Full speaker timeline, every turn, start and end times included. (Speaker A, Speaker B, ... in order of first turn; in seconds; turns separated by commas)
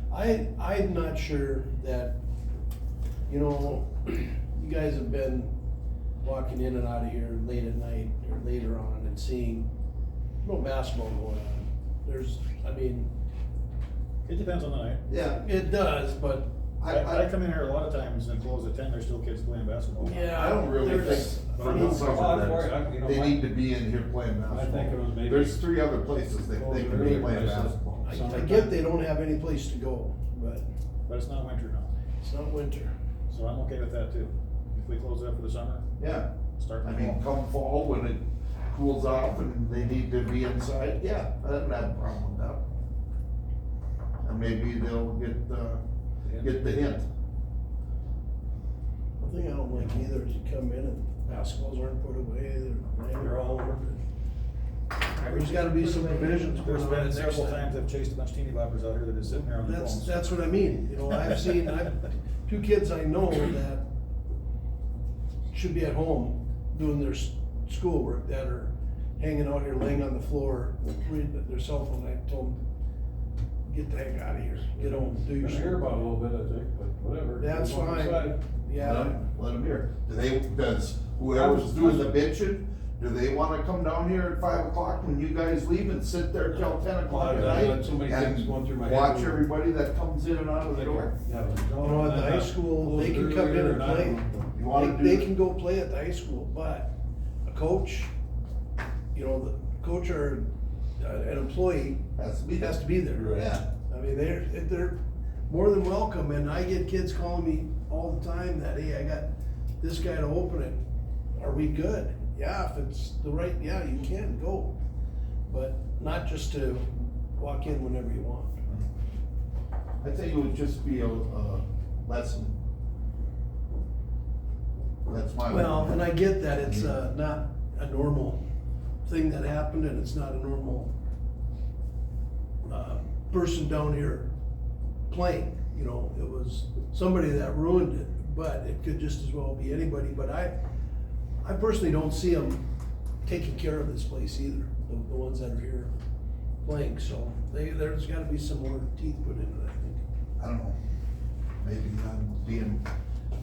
Speaker A: 0.1-2.2, Speaker A: 3.3-5.5, Speaker A: 6.2-9.7, Speaker A: 10.4-13.1, Speaker B: 14.2-15.0, Speaker C: 15.1-15.4, Speaker A: 15.3-16.5, Speaker C: 16.8-17.2, Speaker B: 16.9-20.3, Speaker A: 20.0-22.2, Speaker C: 20.3-28.1, Speaker B: 20.9-22.1, Speaker D: 21.7-23.5, Speaker D: 24.5-25.8, Speaker D: 26.5-28.8, Speaker A: 27.0-27.4, Speaker A: 28.0-30.7, Speaker B: 31.1-31.9, Speaker A: 32.2-32.9, Speaker B: 33.3-35.9, Speaker C: 36.0-36.3, Speaker B: 36.6-37.2, Speaker C: 36.8-42.7, Speaker C: 44.2-45.8, Speaker C: 46.4-47.1, Speaker A: 49.2-54.0, Speaker B: 53.2-53.8, Speaker A: 55.1-57.7, Speaker B: 55.6-60.2, Speaker A: 59.6-63.8, Speaker A: 65.5-72.6, Speaker A: 73.7-75.8, Speaker D: 74.7-78.4, Speaker A: 77.4-79.2, Speaker C: 78.7-91.1, Speaker D: 81.3-82.2, Speaker D: 87.0-89.5, Speaker D: 90.7-94.5, Speaker A: 91.8-98.1, Speaker C: 94.5-95.3, Speaker A: 99.1-100.5, Speaker A: 101.0-110.8, Speaker C: 102.2-103.6, Speaker A: 111.4-114.8, Speaker A: 115.5-118.6, Speaker C: 120.0-122.6, Speaker C: 125.0-126.0, Speaker A: 125.5-128.4, Speaker C: 126.6-126.9, Speaker A: 129.0-130.9, Speaker A: 132.7-134.3, Speaker A: 135.1-140.5, Speaker A: 141.4-142.6, Speaker A: 143.2-145.9, Speaker A: 146.6-150.0, Speaker C: 150.4-150.8, Speaker C: 151.6-152.8